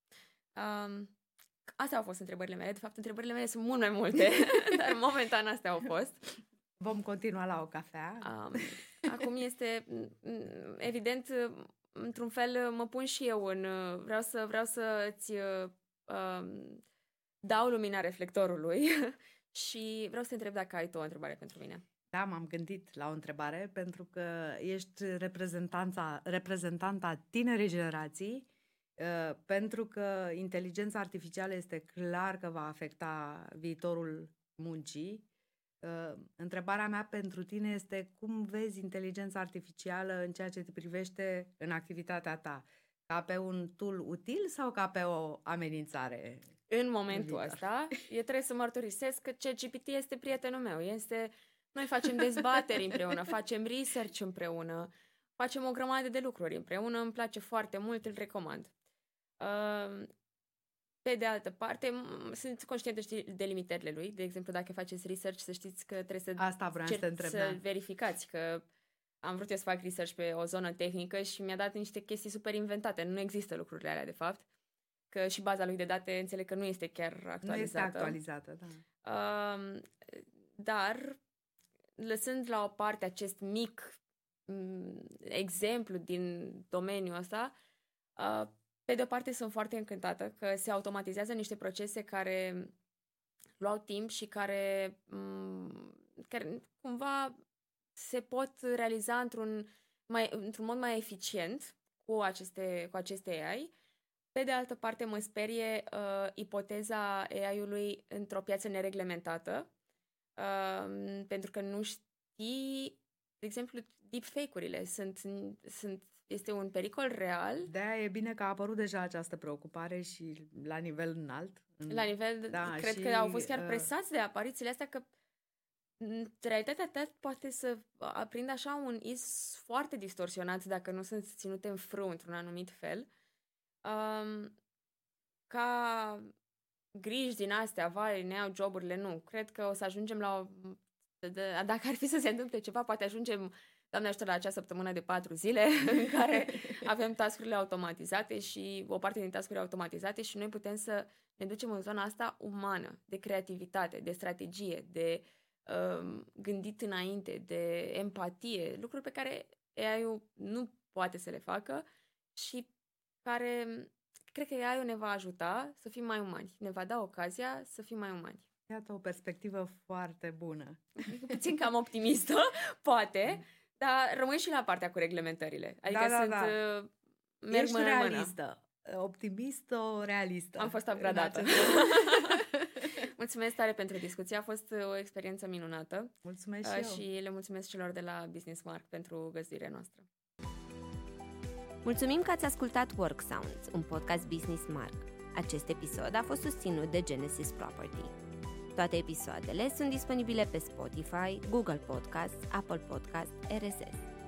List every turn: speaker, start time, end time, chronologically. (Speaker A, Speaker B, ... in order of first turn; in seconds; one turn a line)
Speaker A: 0.5-1.1
Speaker A: 1.8-6.2
Speaker B: 6.8-8.6
Speaker A: 8.2-16.8
Speaker A: 17.4-21.8
Speaker B: 22.1-35.2
Speaker B: 35.8-46.5
Speaker A: 46.7-58.7
Speaker B: 47.1-47.6
Speaker A: 59.4-60.1
Speaker A: 61.0-68.7
Speaker B: 66.4-67.6
Speaker A: 69.2-74.4
Speaker A: 75.1-78.2
Speaker B: 77.4-78.8
Speaker A: 79.0-81.2
Speaker A: 82.0-87.5
Speaker A: 88.2-92.7
Speaker A: 93.6-97.3
Speaker A: 98.0-103.7
Speaker A: 104.3-109.7
Speaker A: 110.4-117.7
Speaker B: 117.7-123.9
Speaker A: 121.9-125.1
Speaker A: 126.0-133.1
Speaker A: 133.8-134.5
Speaker A: 135.5-136.3
Speaker A: 136.9-161.8
Speaker A: 162.3-162.7
Speaker A: 163.2-168.4
Speaker B: 168.7-171.4
Speaker A: 171.0-178.3
Speaker B: 175.9-176.6
Speaker B: 177.5-182.8
Speaker A: 180.6-182.4
Speaker A: 183.2-186.1
Speaker B: 186.2-187.0
Speaker A: 186.6-190.0
Speaker C: 191.8-198.1
Speaker C: 198.7-204.1